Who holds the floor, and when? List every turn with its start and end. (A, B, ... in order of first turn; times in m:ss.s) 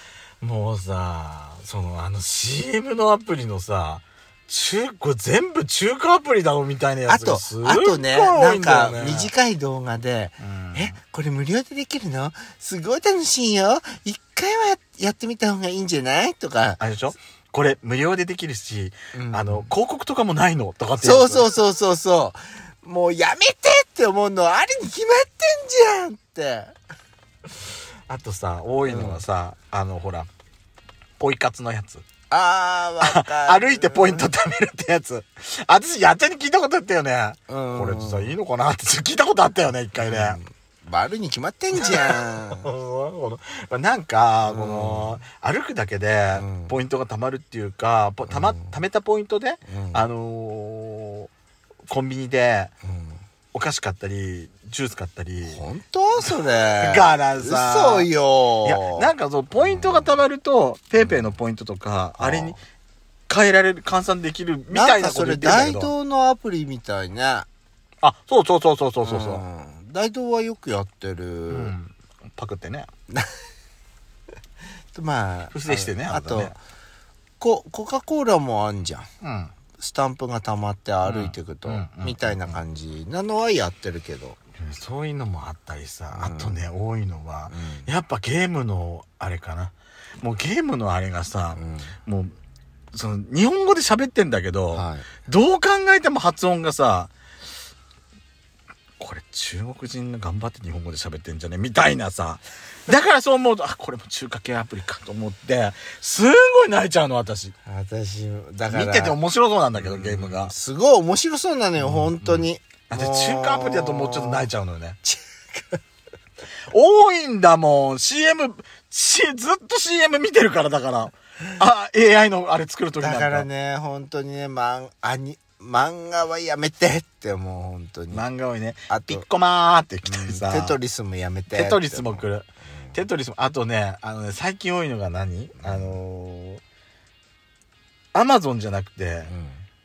0:00.4-0:09.3 A
0:07.1-0:16.8 B
0:10.4-0:11.0 A
0:16.8-0:21.5 A
0:19.1-0:19.7 B
0:21.0-0:26.8 B
0:28.1-0:30.3 A
0:28.8-0:29.2 B
0:31.2-0:32.0 A
0:32.3-0:34.3 B
0:33.0-0:40.4 A
0:37.5-0:38.4 B
0:40.0-0:42.7 B
0:41.7-0:51.3 A
0:44.4-0:45.2 B
0:46.3-0:46.8 B
0:48.3-0:48.8 B
0:49.7-0:50.1 B
0:51.9-0:52.7 A
0:52.8-0:53.2 B
0:53.5-0:55.6 A
0:55.5-1:00.2 B
0:56.2-0:58.1 A
0:58.6-1:02.6 A
1:01.0-1:01.3 B
1:02.2-1:02.6 B
1:03.3-1:05.9 A
1:04.7-1:07.5 B
1:08.0-1:09.4 A
1:09.0-1:11.7 B
1:11.5-1:12.9 A
1:14.9-1:16.6 B
1:15.5-1:16.6 A
1:17.4-1:19.1 B
1:19.2-1:19.5 A
1:19.8-1:24.4 B
1:21.0-1:22.6 A
1:24.6-1:32.3 A
1:26.1-1:26.6 B
1:27.5-1:27.9 B
1:31.5-1:32.0 B
1:32.9-1:37.1 A
1:34.7-1:35.1 B
1:39.0-1:47.6 A
1:47.7-1:49.2 B
1:48.7-1:50.5 A
1:49.8-1:54.5 B
1:51.8-1:55.0 A
1:55.0-1:55.8 B
1:56.7-2:03.5 A
2:03.0-2:08.3 B
2:08.1-2:10.8 A
2:08.9-2:09.2 B
2:10.0-2:13.0 B
2:11.5-2:16.6 A
2:15.6-2:16.0 B
2:18.1-2:19.3 A
2:19.3-2:19.6 B